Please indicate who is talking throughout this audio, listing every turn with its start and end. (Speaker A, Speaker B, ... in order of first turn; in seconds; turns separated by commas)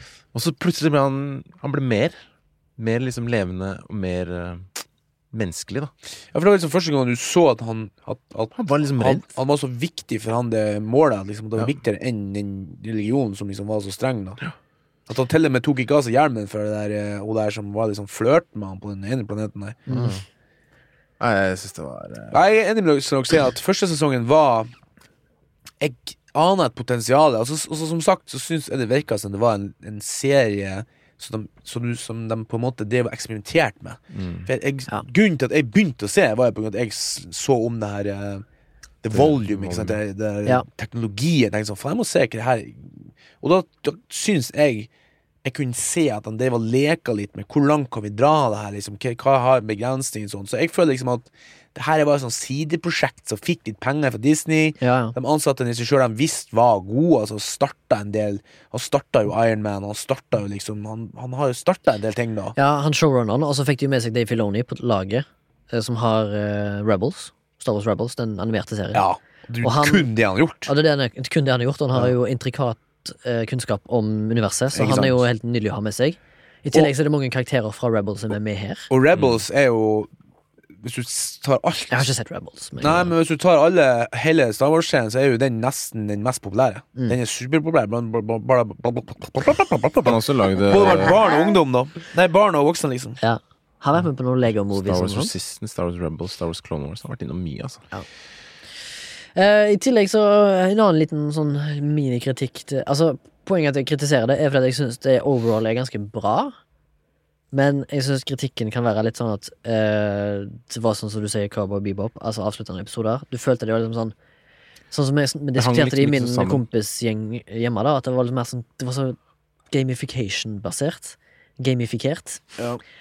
Speaker A: 0.3-2.2, Speaker A: 2.8-4.7, Speaker A: 5.3-5.9, Speaker B: 6.3-14.4, Speaker A: 8.6-9.3, Speaker B: 15.1-19.9, Speaker C: 19.9-20.2, Speaker A: 19.9-20.2, Speaker A: 21.2-22.4, Speaker B: 22.3-24.7, Speaker B: 25.8-38.5, Speaker A: 34.1-34.5, Speaker B: 39.0-44.9, Speaker A: 39.1-40.0, Speaker B: 45.4-62.6, Speaker C: 54.8-55.1, Speaker C: 62.6-69.0, Speaker B: 68.9-70.7, Speaker C: 69.6-70.1, Speaker C: 70.7-78.9, Speaker B: 74.8-75.2, Speaker B: 78.9-80.1, Speaker A: 79.1-79.4, Speaker B: 80.8-82.1, Speaker C: 81.9-83.1, Speaker B: 82.8-93.2, Speaker A: 90.0-91.2, Speaker C: 93.2-95.3, Speaker A: 94.7-97.8, Speaker C: 99.3-106.6, Speaker C: 107.5-114.2, Speaker C: 114.9-119.2, Speaker A: 115.6-116.6, Speaker C: 119.7-122.5